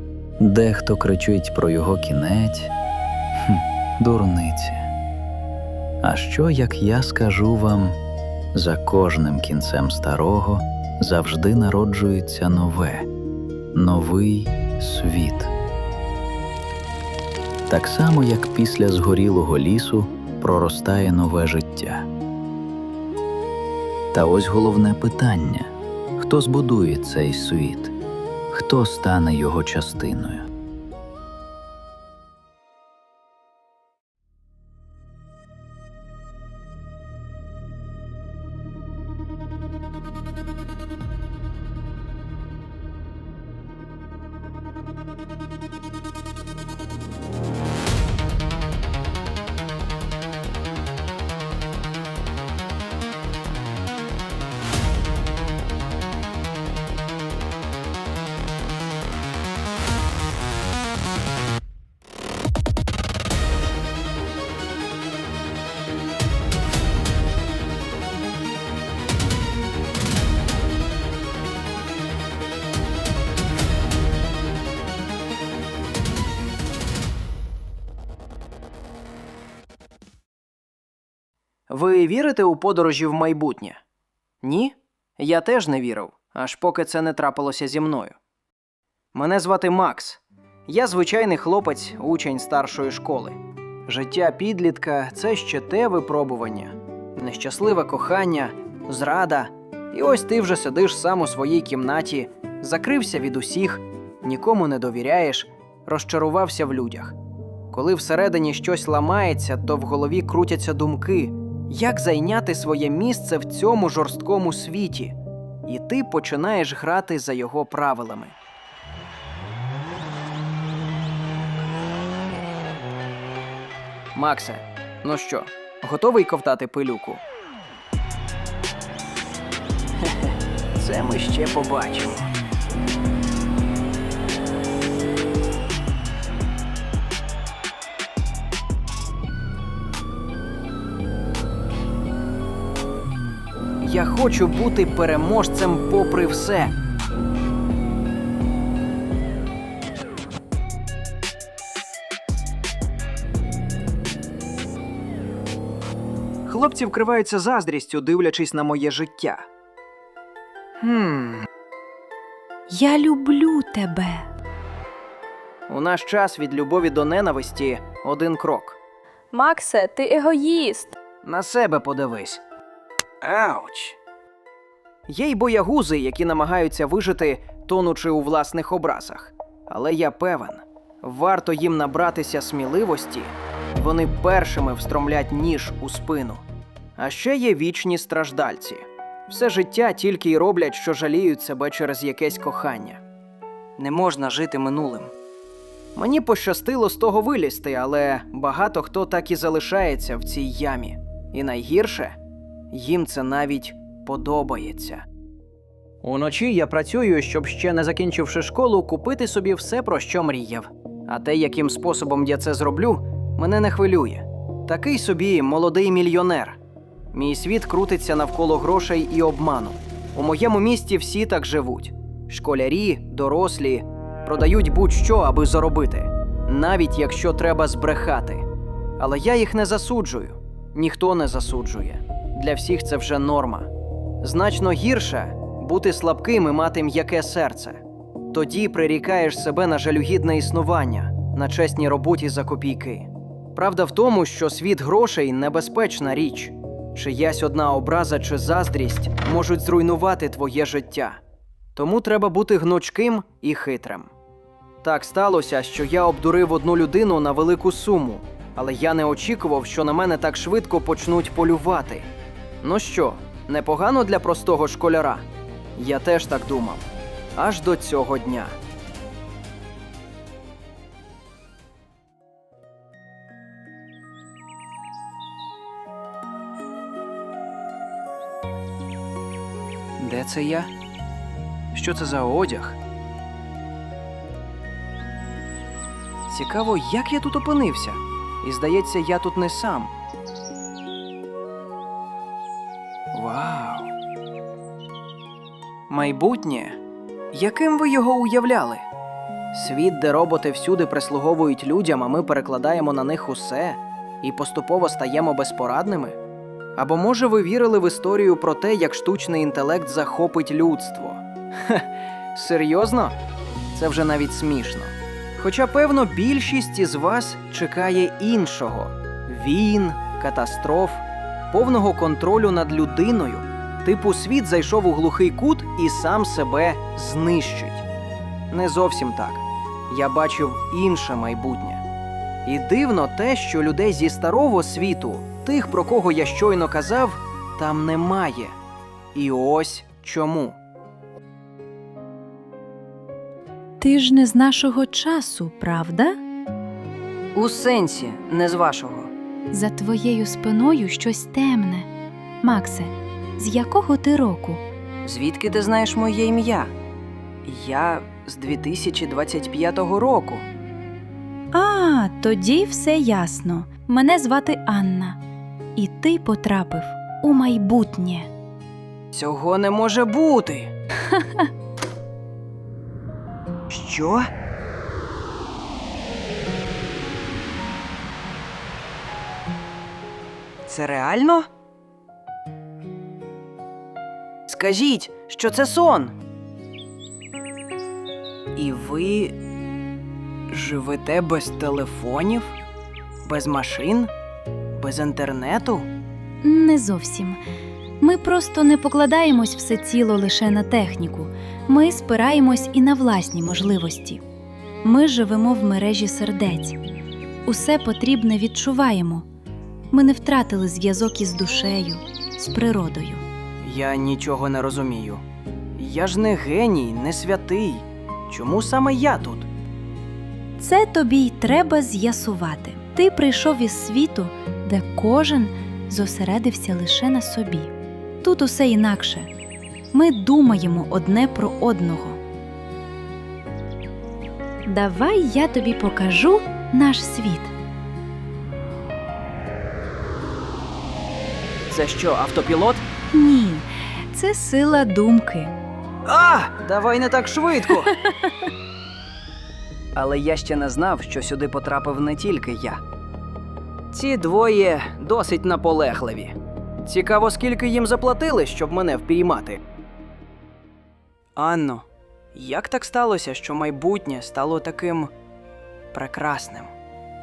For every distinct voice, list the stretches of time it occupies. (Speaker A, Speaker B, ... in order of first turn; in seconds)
Speaker A: 0.4-2.7, 3.4-4.9, 6.0-8.0, 8.5-13.1, 13.8-15.5, 17.7-22.1, 24.1-27.9, 28.5-30.5
Speaker B: 81.7-83.8, 84.4-88.2, 89.1-107.2, 107.7-115.2, 115.7-118.3, 124.2-127.2, 130.0-132.3, 143.8-146.7, 156.5-159.5, 160.8-161.5, 165.7-168.8, 171.2-172.4, 173.2-174.0, 175.1-186.4, 187.0-193.0, 193.8-195.1, 196.0-202.2, 202.7-205.0, 206.0-216.6, 217.1-228.4, 229.0-233.7, 234.2-237.8, 238.3-251.2, 251.8-254.1, 254.8-262.1, 262.6-265.2, 265.8-268.5, 280.0-280.7, 281.7-282.8, 286.3-289.9, 293.1-293.9, 295.9-296.8, 297.3-298.8, 299.5-306.2, 306.8-313.1, 313.8-327.8, 328.5-331.8, 332.5-338.6, 339.1-340.6, 347.4-349.1, 355.1-356.7, 357.4-360.5, 369.1-370.7, 373.7-374.3, 380.7-381.5, 384.5-386.2, 388.6-389.4, 390.5-392.6, 393.2-394.1, 394.8-395.9, 413.6-415.2, 415.8-419.5, 441.7-442.9, 446.1-448.0, 449.9-452.8, 453.9-459.6, 461.4-465.1, 465.9-466.7
Speaker C: 162.7-164.3, 169.3-170.9, 343.8-346.2, 349.5-351.9, 352.4-354.6, 361.5-365.2, 365.8-368.3, 371.1-371.5, 396.4-397.4, 398.0-404.2, 404.8-406.8, 407.5-409.3, 409.9-413.2, 420.6-429.3, 429.9-432.2, 434.7-437.5, 443.1-445.5